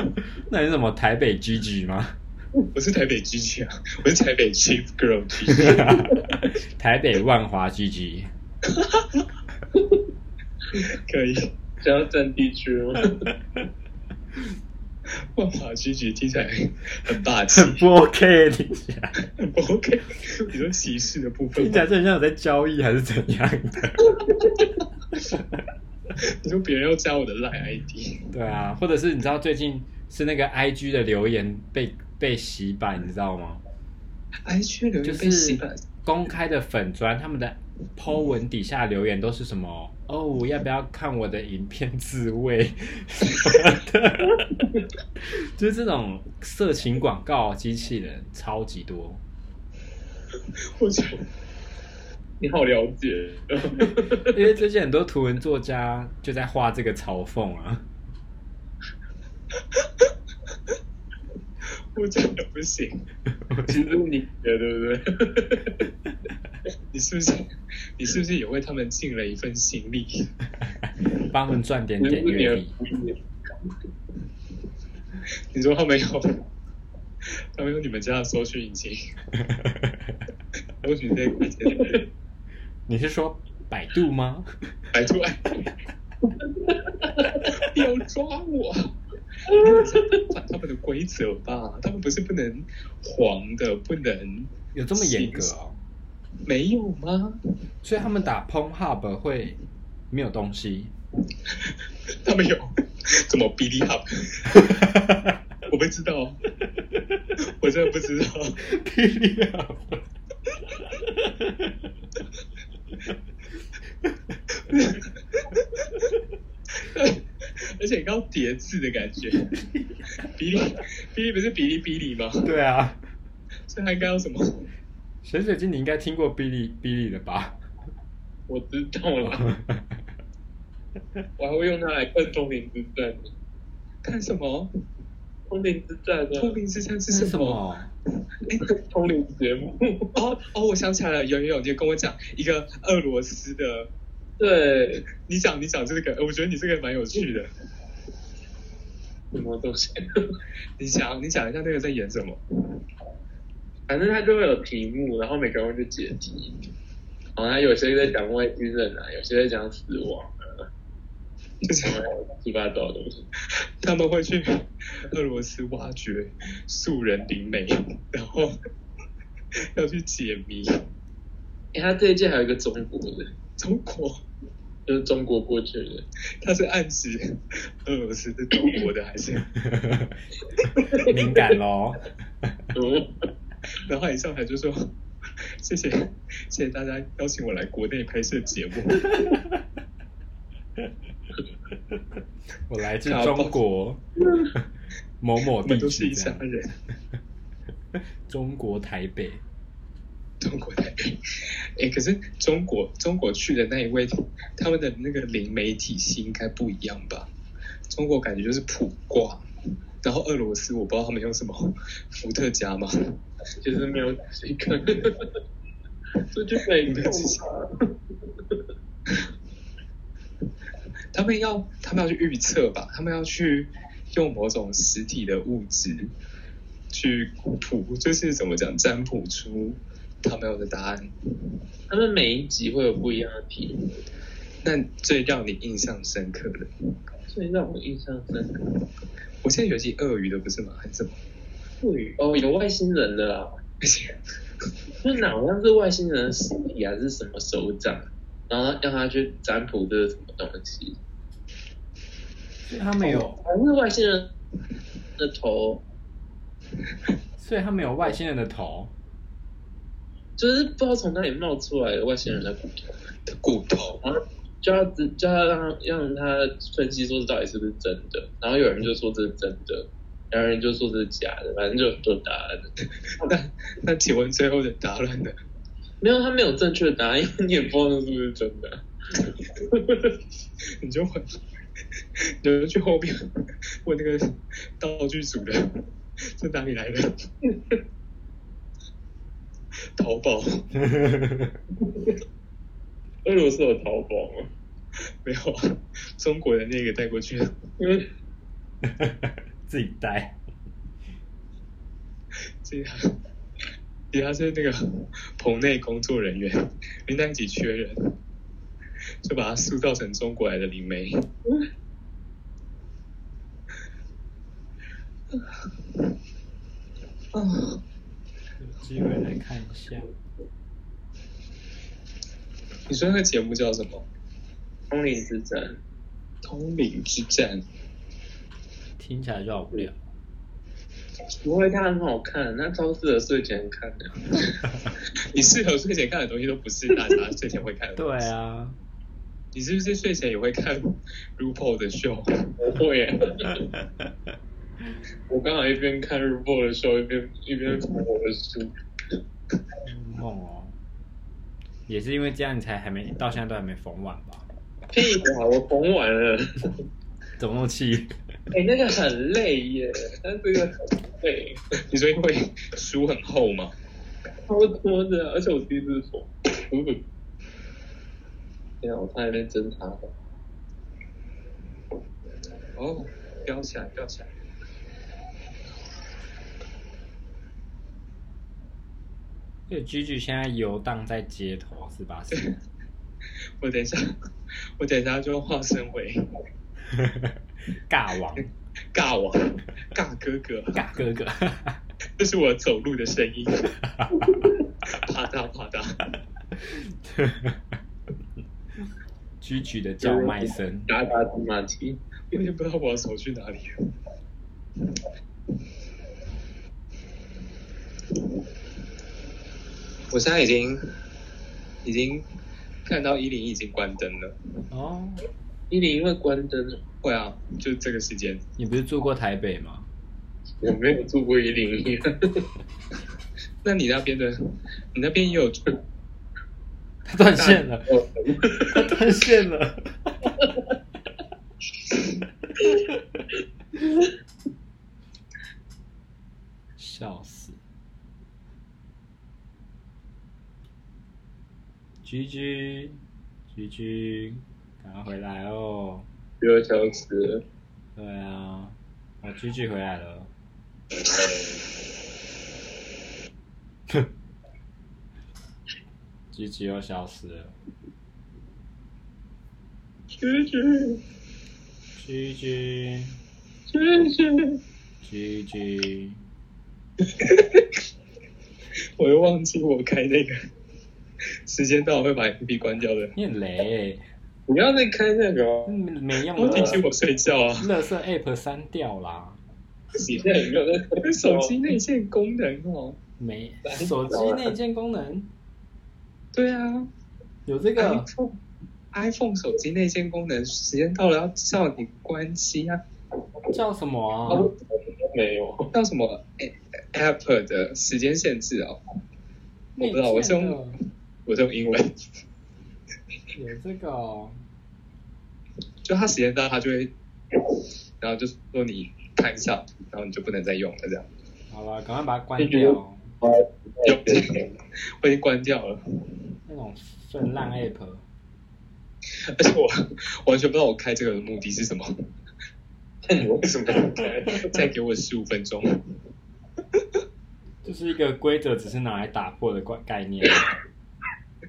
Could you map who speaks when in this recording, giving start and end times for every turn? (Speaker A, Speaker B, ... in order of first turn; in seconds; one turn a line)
Speaker A: 0.3-2.1
Speaker B: 2.7-5.9
Speaker A: 5.5-8.3
Speaker B: 8.7-9.3
Speaker B: 10.7-11.5
Speaker C: 11.8-13.3
Speaker B: 15.3-17.8
Speaker A: 17.5-19.2
Speaker B: 19.4-21.9
Speaker A: 21.6-24.2
Speaker B: 26.2-28.3
Speaker A: 28.3-33.6
Speaker B: 34.5-35.8
Speaker A: 35.0-44.5
Speaker A: 45.2-49.2
Speaker B: 50.8-51.2
Speaker C: 52.4-54.3
Speaker A: 54.2-57.9
Speaker B: 59.7-60.1
Speaker B: 61.9-63.1
Speaker A: 63.4-63.8
Speaker C: 63.7-65.8
Speaker B: 66.9-70.3
Speaker A: 71.2-72.7
Speaker C: 72.0-73.2
Speaker B: 75.5-76.4
Speaker B: 77.2-79.1
Speaker A: 79.4-80.1
Speaker B: 80.8-82.0
Speaker C: 81.7-82.0
Speaker A: 82.9-84.5
Speaker B: 84.9-85.5
Speaker C: 86.4-87.5
Speaker B: 87.4-88.9
Speaker B: 89.5-95.5
Speaker C: 89.5-90.3
Speaker A: 94.7-95.8
Speaker B: 96.5-97.4
Speaker A: 97.8-99.6
Speaker A: 100.1-100.9
Speaker B: 101.5-104.8
Speaker A: 104.5-105.3
Speaker B: 105.7-106.4
Speaker B: 107.4-108.6
Speaker A: 108.7-110.1
Speaker A: 110.9-111.7
Speaker A: 114.0-114.4
Speaker B: 114.7-115.9
Speaker B: 116.7-119.5
Speaker B: 120.3-122.5
Speaker A: 122.4-123.0
Speaker B: 123.7-124.7
Speaker A: 125.2-127.6
Speaker C: 128.5-129.5
Speaker A: 129.2-129.9
Speaker C: 131.4-133.3
Speaker B: 134.0-134.7
Speaker C: 135.5-136.6
Speaker B: 136.3-137.6
Speaker A: 137.1-137.9
Speaker C: 138.7-140.2
Speaker B: 140.2-143.9
Speaker C: 144.4-145.1
Speaker B: 145.2-147.5
Speaker C: 149.3-150.4
Speaker B: 150.8-152.4
Speaker C: 153.9-156.6
Speaker C: 157.4-160.7
Speaker B: 161.6-162.0
Speaker C: 161.8-163.3
Speaker B: 163.8-168.6
Speaker B: 169.7-170.7
Speaker C: 171.7-173.3
Speaker B: 173.6-174.2
Speaker C: 174.9-176.1
Speaker B: 176.4-179.5
Speaker A: 179.6-180.2
Speaker A: 180.9-182.5
Speaker C: 182.7-183.3
Speaker B: 183.8-184.9
Speaker B: 185.4-189.2
Speaker A: 189.1-189.6
Speaker A: 192.7-194.0
Speaker B: 193.1-193.6
Speaker C: 194.2-194.5
Speaker A: 195.2-196.4
Speaker B: 195.6-196.7
Speaker A: 198.3-199.4
Speaker B: 200.4-207.3
Speaker B: 207.9-209.4
Speaker B: 210.0-212.9
Speaker C: 213.6-215.3
Speaker C: 216.2-217.9
Speaker B: 216.8-217.4
Speaker B: 221.1-226.1
Speaker B: 226.9-231.1
Speaker C: 231.9-233.9
Speaker B: 234.6-236.7
Speaker C: 237.3-238.6
Speaker B: 239.4-241.2
Speaker C: 241.8-243.5
Speaker B: 243.8-244.2
Speaker C: 245.0-251.0
Speaker A: 252.7-253.4
Speaker C: 253.0-254.3
Speaker C: 255.2-255.8
Speaker A: 257.4-258.9
Speaker C: 260.4-262.9
Speaker B: 263.3-264.0
Speaker C: 264.0-273.3
Speaker B: 273.2-275.4
Speaker C: 276.0-278.8
Speaker C: 279.6-280.2
Speaker B: 280.8-281.3
Speaker B: 282.2-283.2
Speaker B: 283.8-285.7
Speaker B: 286.3-287.2
Speaker C: 287.5-287.8
Speaker B: 290.0-290.6
Speaker A: 290.8-291.6
Speaker C: 291.8-292.2
Speaker C: 293.2-294.5
Speaker B: 295.2-297.5
Speaker C: 297.8-298.1
Speaker A: 298.8-300.4
Speaker B: 302.6-303.1
Speaker B: 304.1-308.1
Speaker B: 309.2-311.2
Speaker B: 315.3-315.7
Speaker B: 317.3-317.8
Speaker A: 318.6-320.1
Speaker B: 322.9-324.1
Speaker C: 324.9-325.8
Speaker B: 326.4-327.6
Speaker A: 329.0-330.0
Speaker C: 331.4-334.2
Speaker B: 335.3-338.3
Speaker A: 338.0-338.8
Speaker B: 339.5-342.5
Speaker C: 342.6-343.6
Speaker C: 345.3-348.7
Speaker A: 349.9-350.8
Speaker A: 351.9-354.5
Speaker C: 354.9-356.8
Speaker A: 357.4-358.1
Speaker C: 358.5-361.6
Speaker B: 361.9-363.7
Speaker C: 364.5-367.0
Speaker C: 368.8-370.1
Speaker B: 372.8-374.3
Speaker A: 379.7-382.5
Speaker B: 383.6-384.1
Speaker B: 384.8-386.2
Speaker A: 386.9-387.3
Speaker A: 387.9-388.5
Speaker B: 388.9-390.8
Speaker A: 390.7-391.8
Speaker B: 392.2-393.7
Speaker A: 393.9-394.3
Speaker B: 394.9-395.9
Speaker A: 397.0-397.6
Speaker A: 399.4-400.9
Speaker C: 400.0-402.0
Speaker B: 402.3-403.7
Speaker B: 410.1-410.8
Speaker B: 411.8-412.2
Speaker B: 412.9-414.3
Speaker A: 414.7-415.2
Speaker C: 415.7-416.8
Speaker B: 417.0-418.4
Speaker A: 418.6-419.9
Speaker C: 420.6-422.5
Speaker B: 423.6-425.6
Speaker A: 427.1-427.9
Speaker C: 427.4-429.0
Speaker A: 428.7-430.3
Speaker A: 432.6-433.0
Speaker A: 436.8-437.6
Speaker A: 442.0-443.0
Speaker A: 443.5-446.1
Speaker C: 446.4-447.4
Speaker A: 448.0-450.3
Speaker A: 456.3-457.5
Speaker C: 460.2-461.0
Speaker A: 462.0-463.2
Speaker C: 463.7-464.6
Speaker A: 465.0-466.2
Speaker B: 467.0-467.8
Speaker B: 469.0-470.4
Speaker B: 471.4-473.1
Speaker A: 473.1-474.0
Speaker C: 474.5-475.7
Speaker A: 475.7-476.8
Speaker B: 476.4-477.7
Speaker C: 476.4-476.8
Speaker A: 477.6-479.4
Speaker B: 479.9-480.5
Speaker C: 480.1-481.6
Speaker B: 481.0-483.0
Speaker A: 483.2-485.3
Speaker C: 483.6-484.5
Speaker B: 486.3-486.9
Speaker A: 487.5-488.1
Speaker B: 487.8-488.4
Speaker B: 488.9-492.8
Speaker A: 493.5-494.5
Speaker C: 494.3-495.7
Speaker B: 495.7-498.8
Speaker A: 499.8-500.8
Speaker B: 499.8-500.6
Speaker B: 501.3-501.9
Speaker A: 503.4-504.4
Speaker B: 505.8-506.9
Speaker B: 508.0-511.1
Speaker A: 511.5-513.1
Speaker C: 512.4-514.5
Speaker B: 513.9-514.3
Speaker B: 515.0-515.8
Speaker A: 516.5-518.0
Speaker B: 519.2-521.9
Speaker C: 523.0-524.6
Speaker B: 523.4-525.7
Speaker B: 526.7-527.0
Speaker A: 527.6-530.5